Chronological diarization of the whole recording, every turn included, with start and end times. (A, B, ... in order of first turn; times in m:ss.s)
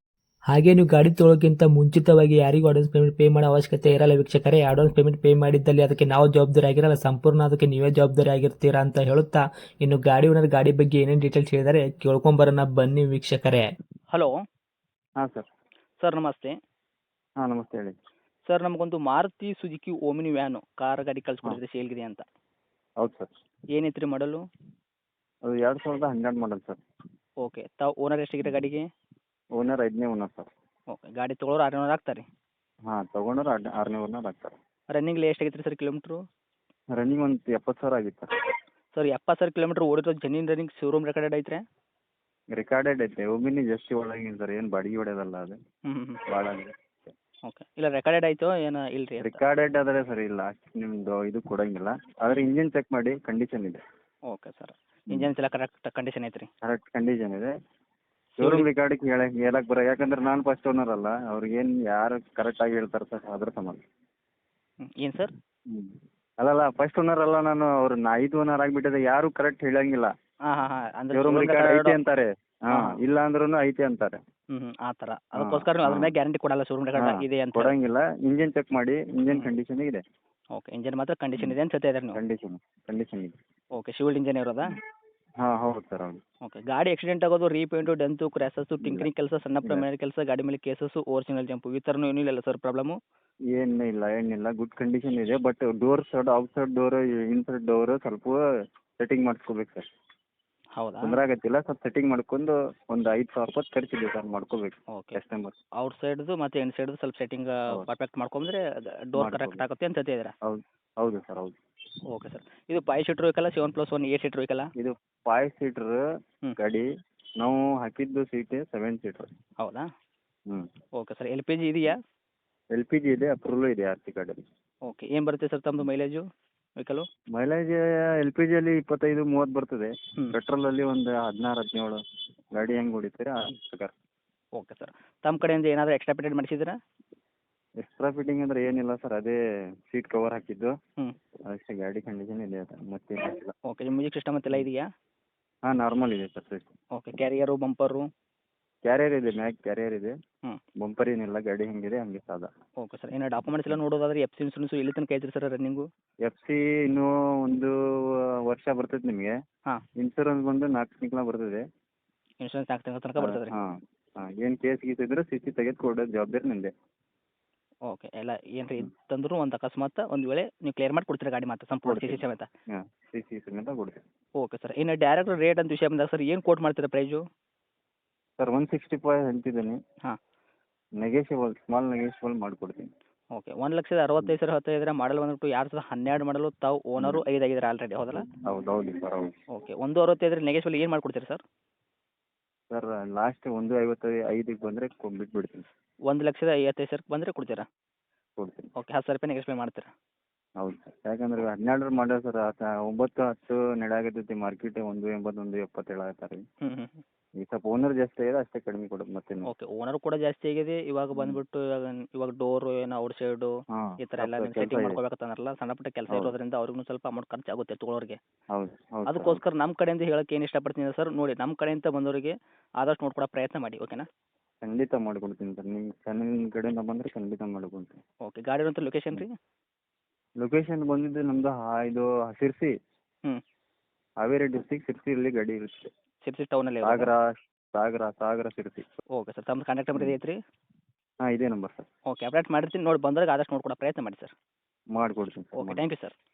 0:00.5-0:13.7 A
0:15.2-0:15.5 B
0:16.0-0:16.5 C
0:17.4-0:17.9 B
0:18.5-0:22.2 C
0:23.0-0:23.3 B
0:23.7-0:24.4 C
0:25.4-0:26.8 B
0:27.4-0:28.8 C
0:29.5-0:30.5 B
0:30.9-0:32.2 C
0:32.9-0:34.5 B
0:34.9-0:36.2 C
0:36.9-0:38.3 B
0:38.9-0:41.6 C
0:42.5-0:45.6 B
0:45.9-0:46.2 C
0:46.2-0:46.7 B
0:47.4-0:49.4 C
0:49.2-0:53.8 B
0:54.3-0:56.5 C
0:56.6-0:57.5 B
0:58.4-0:58.7 C
0:58.4-1:03.8 B
1:04.8-1:05.3 C
1:05.7-1:10.1 B
1:10.5-1:12.0 C
1:11.1-1:14.2 B
1:12.7-1:13.0 C
1:14.5-1:17.7 C
1:15.4-1:16.1 B
1:17.0-1:20.0 B
1:20.5-1:22.2 C
1:22.1-1:23.3 B
1:23.7-1:24.8 C
1:25.4-1:26.2 B
1:26.4-1:33.0 C
1:28.8-1:29.1 B
1:33.5-1:38.4 B
1:39.0-1:39.8 B
1:40.8-1:41.1 C
1:41.0-1:45.6 B
1:44.9-1:45.2 C
1:45.8-1:50.3 C
1:49.2-1:49.6 B
1:50.4-1:51.5 B
1:52.1-1:54.7 C
1:54.8-1:56.0 B
1:56.6-1:56.9 B
1:57.4-1:59.3 B
1:59.6-1:59.8 C
2:01.0-2:02.0 C
2:02.7-2:04.4 B
2:04.8-2:06.2 C
2:06.8-2:07.1 C
2:07.3-2:12.0 B
2:12.5-2:13.9 B
2:14.6-2:16.8 C
2:17.8-2:19.4 B
2:19.9-2:20.7 B
2:21.5-2:23.5 B
2:23.7-2:24.8 C
2:25.6-2:26.7 B
2:26.9-2:28.0 C
2:28.8-2:30.1 B
2:30.8-2:32.5 B
2:32.8-2:35.8 C
2:36.2-2:39.3 B
2:40.0-2:41.6 B
2:42.4-2:43.6 C
2:43.2-2:46.7 B
2:47.9-2:52.5 C
2:51.8-2:54.0 B
2:54.4-2:57.2 C
2:58.4-2:59.8 B
3:01.0-3:02.9 B
3:03.3-3:08.2 C
3:07.0-3:07.2 B
3:08.1-3:09.3 B
3:09.5-3:11.4 C
3:12.7-3:15.6 B
3:16.1-3:17.7 C
3:18.4-3:18.7 B
3:18.8-3:19.9 C
3:20.6-3:26.4 B
3:26.6-3:27.0 C
3:27.4-3:29.5 B
3:29.4-3:38.2 C
3:33.7-3:35.0 B
3:38.5-3:39.4 B
3:39.0-3:44.0 C
3:44.6-3:48.0 B
3:48.2-3:49.3 C
3:50.4-3:52.7 B
3:54.2-3:55.9 B
3:56.2-3:57.1 C
3:56.8-3:58.9 B
3:59.1-4:00.4 C
4:01.2-4:01.9 B
4:02.1-4:04.3 C
4:04.9-4:05.8 B
4:05.6-4:06.1 C